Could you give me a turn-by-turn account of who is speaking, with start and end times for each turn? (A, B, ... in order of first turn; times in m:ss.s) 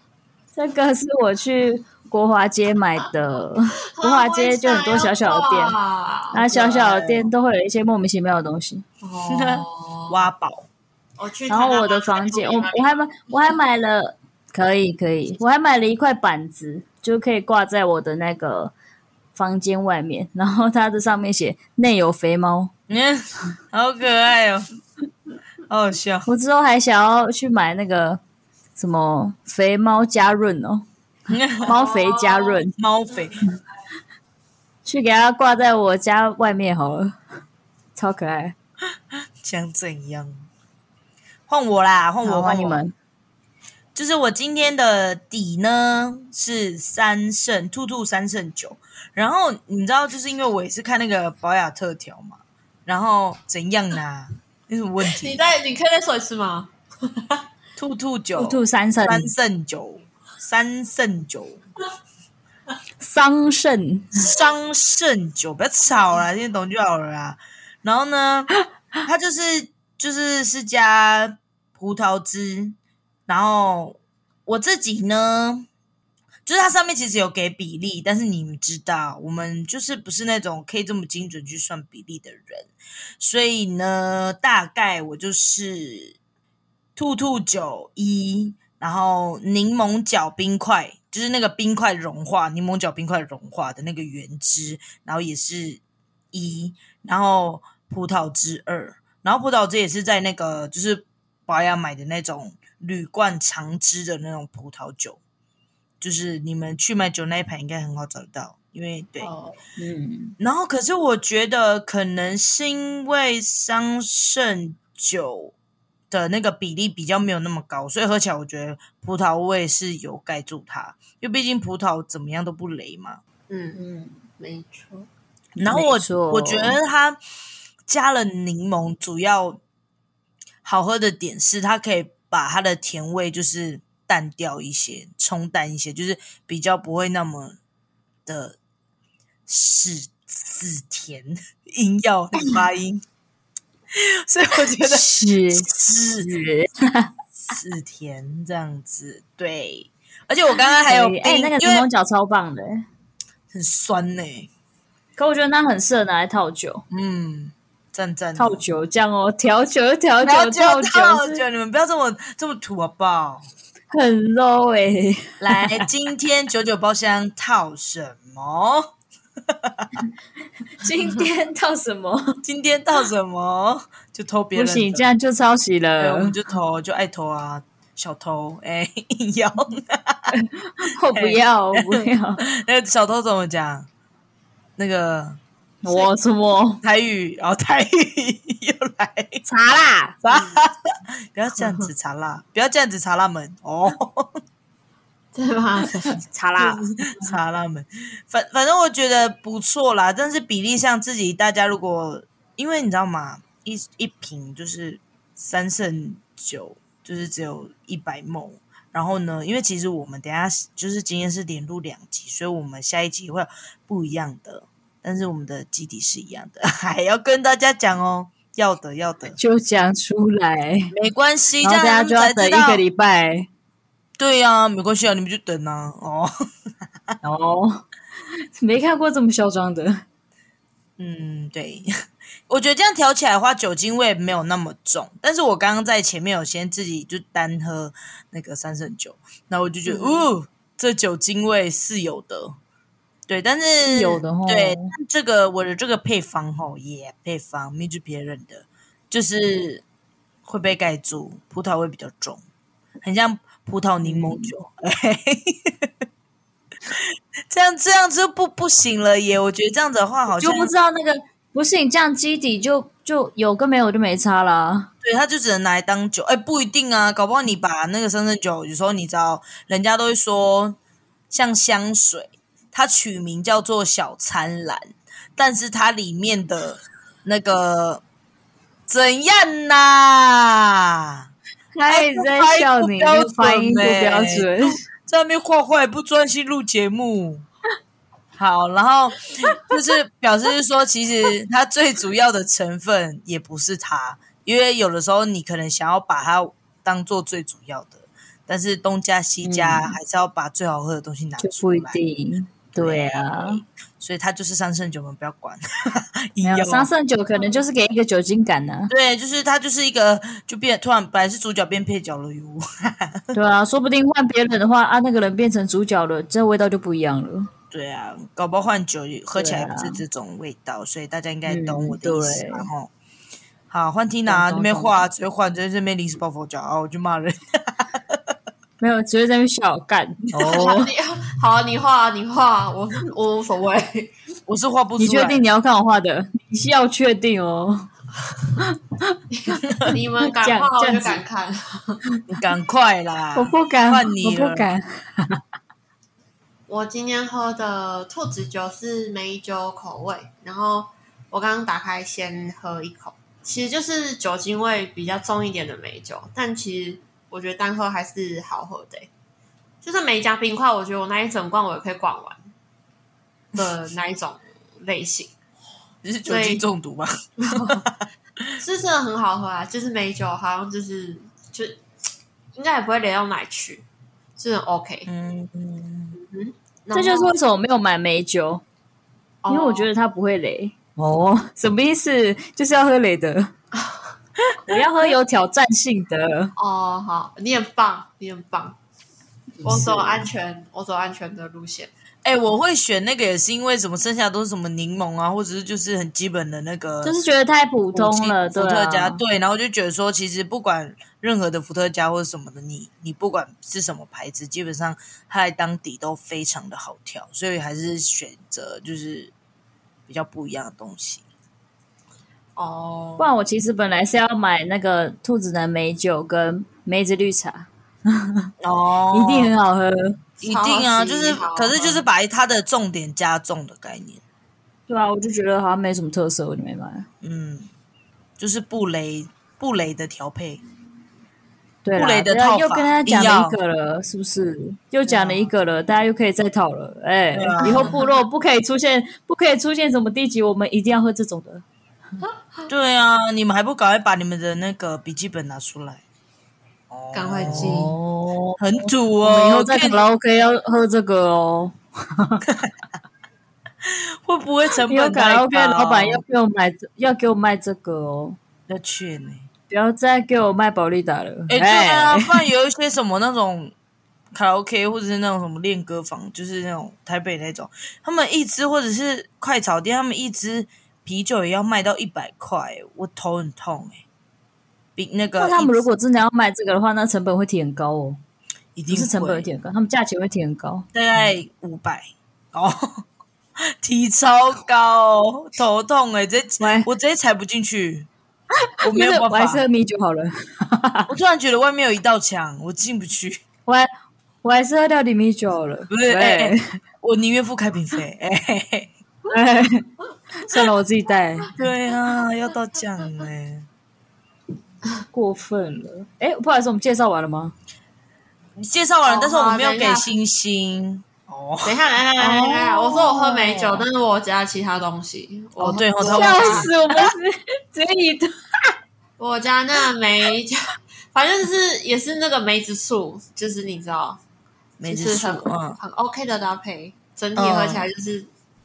0:00.5-0:05.8 A
0:04.0-0:07.0 B
0:06.3-0:08.8 A
0:06.5-0:07.3 C
0:09.0-0:10.3 B
0:09.3-0:10.7 C
0:11.2-0:13.5 B
0:11.5-0:18.7 A
0:19.3-0:22.7 A
0:22.9-0:24.7 C
0:25.7-0:26.3 C
0:26.3-0:28.2 A
0:28.8-0:30.8 A
0:31.3-0:31.7 C
0:31.6-0:32.6 B
0:31.6-0:32.7 A
0:32.8-0:33.4 C
0:34.8-0:37.2 A
0:38.0-0:38.5 A
0:39.1-0:40.4 C
0:41.5-0:42.8 C
0:42.2-0:42.9 A
0:43.9-0:55.4 C
0:55.0-0:57.4 B
0:57.8-1:01.6 C
0:58.3-0:59.3 A
1:03.0-1:04.3 A
1:04.1-1:08.5 C
1:09.0-1:15.7 C
1:16.4-1:26.2 C
1:27.0-1:35.8 C
1:36.3-1:45.2 C
1:46.0-1:49.3 C
1:49.2-1:49.6 B
1:49.8-1:50.4 A
1:50.4-1:55.5 C
1:56.1-2:03.2 C
2:03.5-2:03.8 B
2:03.8-2:04.2 A
2:04.4-2:05.1 B
2:05.6-2:07.2 C
2:05.6-2:06.8 A
2:07.8-2:09.6 C
2:10.6-2:17.6 C
2:18.2-2:18.6 C
2:19.5-2:23.0 C
2:23.9-2:26.3 C
2:24.8-2:27.1 A
2:27.5-2:31.9 C
2:30.8-2:32.8 A
2:33.5-2:34.5 C
2:35.2-2:36.8 A
2:36.9-2:38.6 C
2:38.4-2:41.4 A
2:40.2-2:43.4 C
2:43.9-2:45.9 A
2:45.4-2:48.9 C
2:49.5-2:50.0 C
2:50.8-2:52.4 A
2:52.4-2:55.1 C
2:54.5-2:56.3 A
2:56.0-3:00.3 C
3:00.3-3:02.4 A
3:01.1-3:03.9 C
3:04.8-3:05.4 C
3:05.8-3:06.8 A
3:06.8-3:09.4 C
3:09.4-3:10.2 A
3:10.2-3:14.4 C
3:10.3-3:10.6 B
3:11.6-3:11.9 B
3:15.3-3:16.1 B
3:16.0-3:16.8 A
3:16.6-3:39.4 C
3:39.4-3:40.9 A
3:40.9-3:42.8 C
3:41.6-3:43.5 A
3:44.2-3:46.3 C
3:47.2-3:47.8 A
3:48.6-3:50.0 A
3:51.0-3:51.9 C
3:52.5-4:02.6 C
4:03.3-4:09.8 C
4:03.8-4:04.9 A
4:10.4-4:12.4 C
4:13.0-4:15.9 C
4:14.0-4:14.5 A
4:16.8-4:20.7 C
4:20.3-4:24.9 A
4:25.0-4:30.8 C
4:31.3-4:38.0 C
4:38.9-4:41.2 C
4:41.7-4:44.8 A
4:41.9-4:47.4 C
4:48.4-5:02.0 C
4:59.4-5:00.0 A
5:01.4-5:03.6 A
5:02.7-5:06.9 C
5:06.4-5:08.9 A
5:08.9-5:13.3 C
5:13.3-5:17.5 A
5:17.7-5:22.9 C
5:19.4-5:20.0 A
5:21.4-5:22.7 A
5:23.7-5:28.2 C
5:24.2-5:25.0 A
5:28.8-5:30.9 A
5:30.4-5:30.7 C
5:30.4-5:34.1 B
5:34.5-5:35.4 C
5:35.0-5:37.9 A
5:38.6-5:39.2 A
5:39.3-5:42.0 B
5:39.8-5:41.2 A
5:42.3-5:44.7 C
5:43.3-5:45.4 A
5:46.7-5:59.1 B
5:59.8-6:02.4 B
6:03.5-6:05.3 B
6:06.0-6:08.6 C
6:06.2-6:06.6 B
6:07.4-6:07.8 B
6:08.6-6:11.8 B
6:12.5-6:13.8 B
6:14.4-6:15.1 B
6:15.1-6:16.2 C
6:16.2-6:17.3 B
6:16.9-6:18.6 A
6:19.4-6:19.9 B
6:19.5-6:23.5 A
6:24.6-6:26.5 A
6:26.6-6:28.8 B
6:29.6-6:30.2 A
6:29.6-6:31.9 B
6:32.2-6:37.2 C
6:37.0-6:39.2 A
6:37.9-6:49.3 C
6:50.1-6:51.2 C
6:52.6-6:53.3 B
6:53.2-6:58.5 A
6:58.6-6:59.5 C
6:59.1-7:00.2 A
7:00.4-7:02.0 B
7:00.4-7:04.2 C
7:04.9-7:07.1 A
7:07.2-7:07.7 C
7:08.4-7:10.6 C
7:11.8-7:21.6 A
7:12.0-7:13.6 C
7:15.0-7:15.5 C
7:17.3-7:17.9 C
7:17.6-7:18.2 B
7:22.7-7:26.0 C
7:26.9-7:27.9 C
7:27.1-7:27.9 B
7:27.5-7:32.4 A
7:28.6-7:30.0 C
7:33.8-7:36.2 C
7:34.9-7:38.4 A
7:38.7-7:39.5 C
7:39.7-7:42.4 A
7:41.5-7:43.7 C
7:44.3-7:54.0 C
7:55.0-7:55.8 C
7:55.4-7:58.2 A
7:58.8-7:59.5 C
7:58.9-8:00.8 A
8:00.9-8:03.0 C
8:03.8-8:08.1 C
8:06.6-8:06.9 A
8:08.8-8:09.6 C
8:08.8-8:11.1 A
8:11.1-8:13.4 C
8:14.4-8:16.8 A
8:15.9-8:18.9 C
8:19.3-8:21.5 A
8:21.6-8:23.7 C
8:25.1-8:27.5 A
8:28.6-8:31.8 C
8:29.0-8:30.1 B
8:31.6-8:36.7 B
8:32.2-8:33.8 A
8:35.6-8:37.1 C
8:36.0-8:38.7 A
8:39.2-8:40.6 B
8:41.1-8:44.2 B
8:44.8-8:45.8 C
8:44.8-8:48.3 B
8:47.4-8:47.9 C